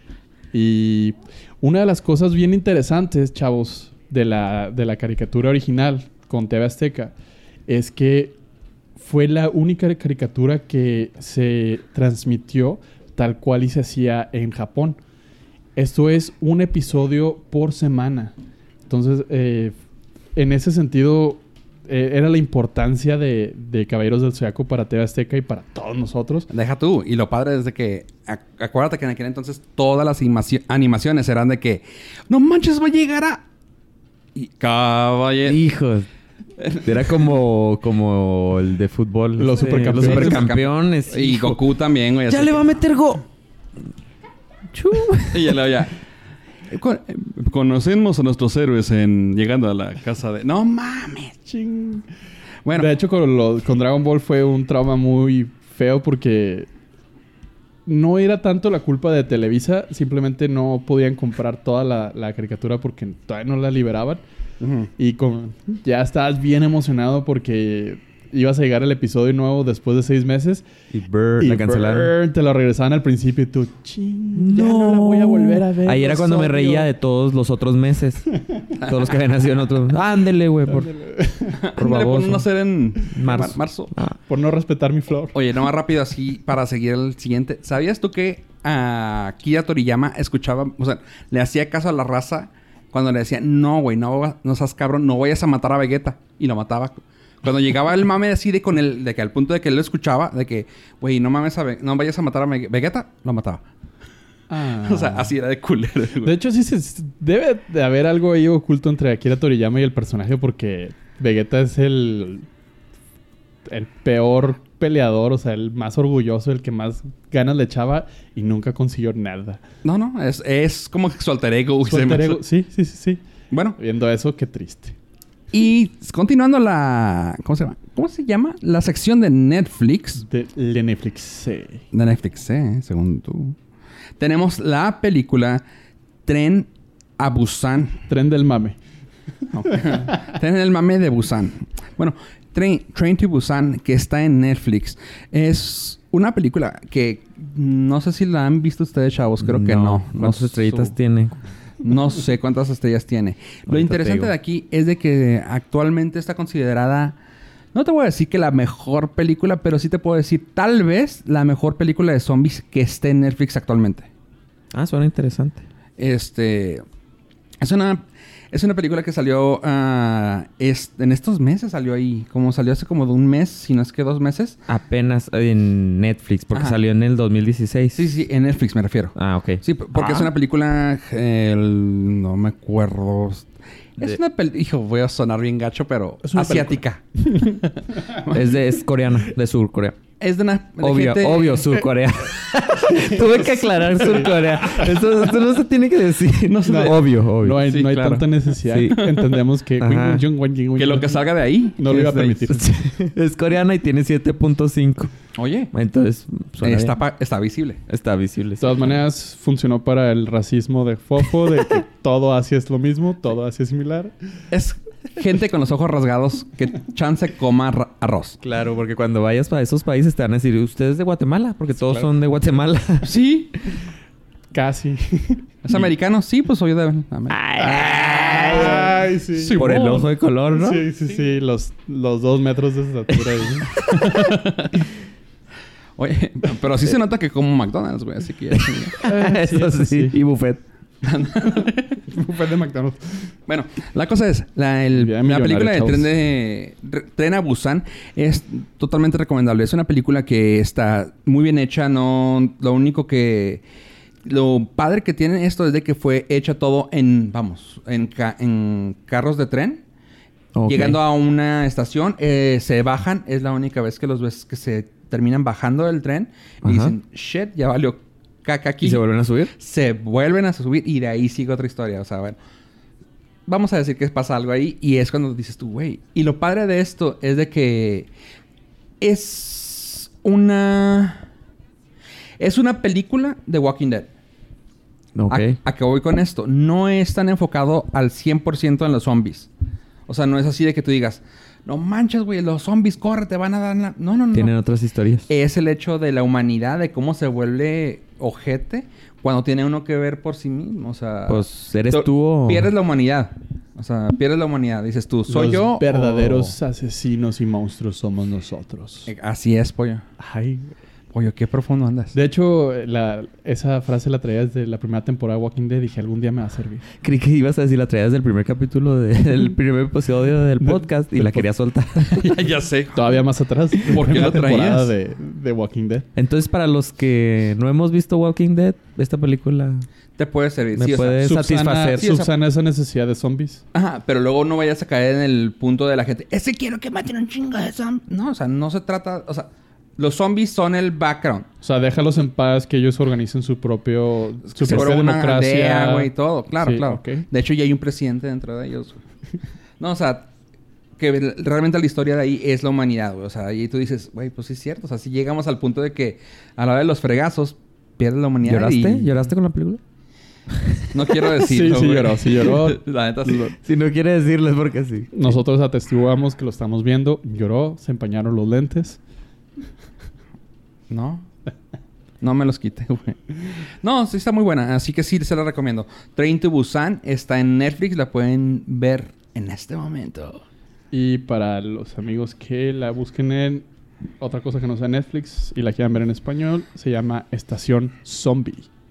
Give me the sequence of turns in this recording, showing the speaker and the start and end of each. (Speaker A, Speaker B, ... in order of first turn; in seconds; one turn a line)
Speaker A: 0.5-7.1
Speaker A: 7.7-8.4
Speaker A: 9.0-15.0
Speaker A: 15.8-18.3
Speaker A: 18.9-19.7
Speaker A: 20.4-26.5
Speaker B: 26.5-33.5
Speaker B: 34.4-35.6
Speaker C: 35.5-36.1
Speaker B: 36.6-37.0
Speaker C: 36.8-41.6
Speaker A: 39.4-40.5
Speaker B: 39.6-42.7
Speaker C: 42.3-43.2
Speaker C: 44.7-45.6
Speaker B: 45.3-45.9
Speaker B: 46.7-51.4
Speaker A: 51.5-52.1
Speaker B: 52.6-52.9
Speaker A: 52.7-56.7
Speaker A: 57.9-64.2
Speaker B: 64.6-64.9
Speaker A: 65.0-70.6
Speaker C: 70.9-72.1
Speaker A: 71.4-76.9
Speaker C: 74.3-80.9
Speaker A: 80.7-81.7
Speaker B: 81.6-83.9
Speaker C: 81.8-82.5
Speaker C: 83.0-84.2
Speaker A: 84.3-85.3
Speaker B: 85.3-103.7
Speaker A: 104.5-105.3
Speaker B: 104.8-106.3
Speaker A: 106.2-112.5
Speaker A: 113.7-119.6
Speaker B: 119.8-122.4
Speaker A: 121.8-123.2
Speaker B: 123.5-123.8
Speaker A: 123.8-125.0
Speaker B: 125.5-130.2
Speaker A: 130.2-131.8
Speaker B: 131.9-133.6
Speaker B: 134.2-135.6
Speaker B: 136.3-138.0
Speaker A: 138.1-138.8
Speaker B: 139.5-150.9
Speaker A: 139.7-140.1
Speaker C: 149.4-151.4
Speaker B: 151.8-157.2
Speaker C: 153.7-154.3
Speaker B: 157.7-164.1
Speaker C: 164.7-165.6
Speaker B: 166.0-166.8
Speaker B: 167.6-174.6
Speaker C: 174.7-178.1
Speaker B: 177.9-188.4
Speaker C: 179.2-180.3
Speaker A: 186.2-187.7
Speaker C: 188.3-190.0
Speaker B: 190.2-191.7
Speaker C: 190.8-197.8
Speaker A: 193.6-194.8
Speaker B: 196.5-197.1
Speaker A: 196.7-201.2
Speaker B: 197.7-198.3
Speaker C: 198.7-199.1
Speaker B: 198.9-199.2
Speaker C: 199.8-200.2
Speaker B: 200.8-202.5
Speaker A: 201.8-202.8
Speaker C: 202.5-205.1
Speaker B: 205.3-205.7
Speaker C: 205.7-207.0
Speaker B: 206.6-207.8
Speaker C: 207.9-209.0
Speaker A: 208.6-214.1
Speaker B: 214.5-218.4
Speaker C: 218.4-223.1
Speaker B: 223.0-223.6
Speaker A: 224.5-225.4
Speaker B: 225.6-230.1
Speaker C: 227.3-229.0
Speaker A: 228.2-229.7
Speaker C: 229.5-230.8
Speaker A: 230.5-234.4
Speaker C: 233.7-234.3
Speaker B: 234.1-234.8
Speaker B: 236.0-239.0
Speaker C: 239.0-240.6
Speaker A: 239.0-240.2
Speaker B: 241.0-242.0
Speaker A: 242.1-243.3
Speaker B: 243.5-253.6
Speaker A: 244.9-246.1
Speaker B: 254.2-259.8
Speaker C: 260.6-261.0
Speaker B: 260.7-269.0
Speaker C: 266.6-266.9
Speaker C: 268.8-269.5
Speaker B: 269.6-272.4
Speaker B: 273.5-278.1
Speaker B: 279.0-281.3
Speaker B: 282.4-284.1
Speaker C: 285.2-285.6
Speaker B: 285.3-289.5
Speaker B: 290.1-294.5
Speaker C: 294.3-295.3
Speaker B: 295.3-306.5
Speaker C: 301.3-302.7
Speaker A: 305.3-309.1
Speaker B: 309.1-310.1
Speaker A: 310.2-310.7
Speaker B: 311.1-312.1
Speaker A: 312.1-316.9
Speaker C: 317.0-322.4
Speaker A: 320.6-321.5
Speaker B: 322.2-323.2
Speaker A: 322.9-326.1
Speaker B: 323.9-324.9
Speaker C: 326.2-329.9
Speaker B: 330.2-331.2
Speaker C: 330.8-332.1
Speaker A: 331.1-333.6
Speaker B: 332.0-332.3
Speaker B: 333.7-341.5
Speaker A: 341.6-347.3
Speaker B: 344.6-349.0
Speaker B: 349.8-350.3
Speaker B: 351.0-359.1
Speaker C: 358.4-359.8
Speaker C: 360.6-360.9
Speaker B: 360.9-363.6
Speaker A: 361.4-362.8
Speaker C: 363.6-365.4
Speaker A: 365.1-369.0
Speaker B: 370.9-371.3
Speaker B: 372.2-380.4
Speaker A: 380.9-383.6
Speaker A: 384.2-388.7